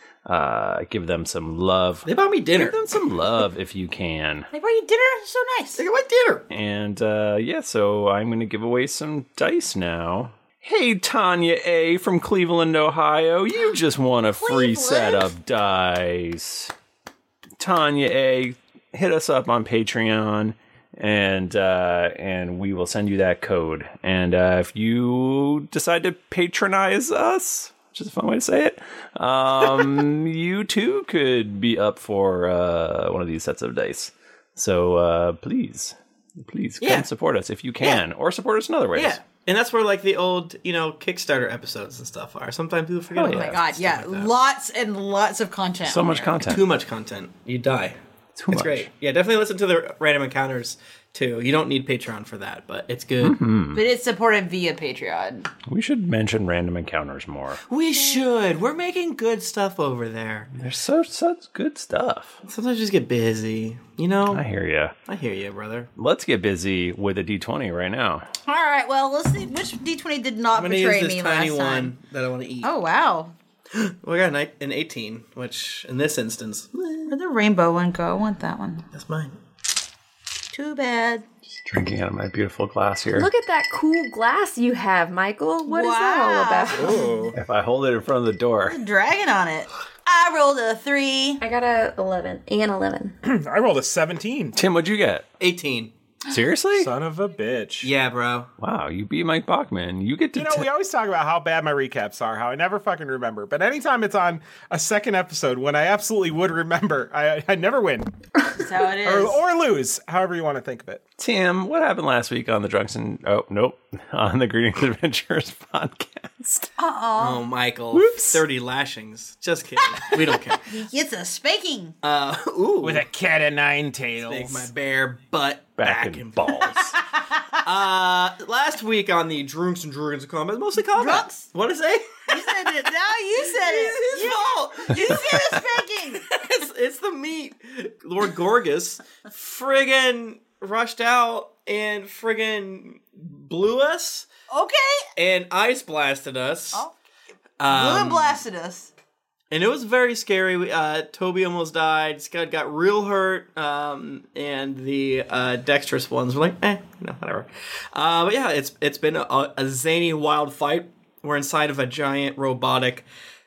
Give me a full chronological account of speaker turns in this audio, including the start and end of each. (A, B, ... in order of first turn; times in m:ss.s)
0:00.3-0:04.5 A
0:02.0-0:02.8 B
0:04.5-0:05.8 C
0:05.8-0:06.4 B
0:06.5-0:16.7 A
0:14.3-0:15.3 C
0:17.6-0:39.2 A
0:36.8-0:37.1 B
0:39.0-0:44.3 B
0:43.1-0:46.4 C
0:43.2-0:44.2 A
0:45.8-0:46.6 A
0:46.4-0:48.0 B
0:48.4-0:48.9 A
0:48.5-0:53.4 B
0:53.2-0:53.9 A
0:53.7-0:55.5 C
0:55.7-0:57.6 A
0:57.7-1:00.5 B
1:00.5-1:02.4 A
1:02.5-1:04.4 B
1:04.3-1:04.9 A
1:05.1-1:05.9 B
1:06.0-1:08.3 A
1:08.5-1:12.0 C
1:10.5-1:12.7 B
1:12.6-1:13.3 C
1:13.7-1:17.1 B
1:17.1-1:18.8 C
1:18.9-1:19.4 B
1:20.5-1:21.2 C
1:21.7-1:23.3 A
1:23.1-1:27.0 D
1:25.6-1:27.1 C
1:26.8-1:27.4 E
1:27.4-1:28.8 A
1:28.7-1:31.4 C
1:31.4-1:33.2 D
1:33.2-1:34.6 E
1:34.6-1:35.2 A
1:35.4-1:35.9 B
1:36.3-1:36.9 A
1:36.8-1:37.9 E
1:37.8-1:38.5 B
1:38.6-1:40.7 A
1:40.4-1:48.1 E
1:48.6-1:49.4 C
1:48.8-1:51.0 E
1:51.2-1:56.7 A
1:56.8-1:57.4 C
1:57.2-2:00.6 B
2:00.1-2:02.0 C
2:02.0-2:03.0 B
2:02.8-2:04.7 E
2:04.2-2:06.9 B
2:05.8-2:07.0 A
2:07.6-2:15.4 B
2:10.9-2:11.5 C
2:12.3-2:16.3 C
2:16.3-2:24.3 B
2:24.5-2:25.1 C
2:25.2-2:26.9 B
2:27.6-2:28.4 B
2:27.6-2:28.9 C
2:29.5-2:43.1 B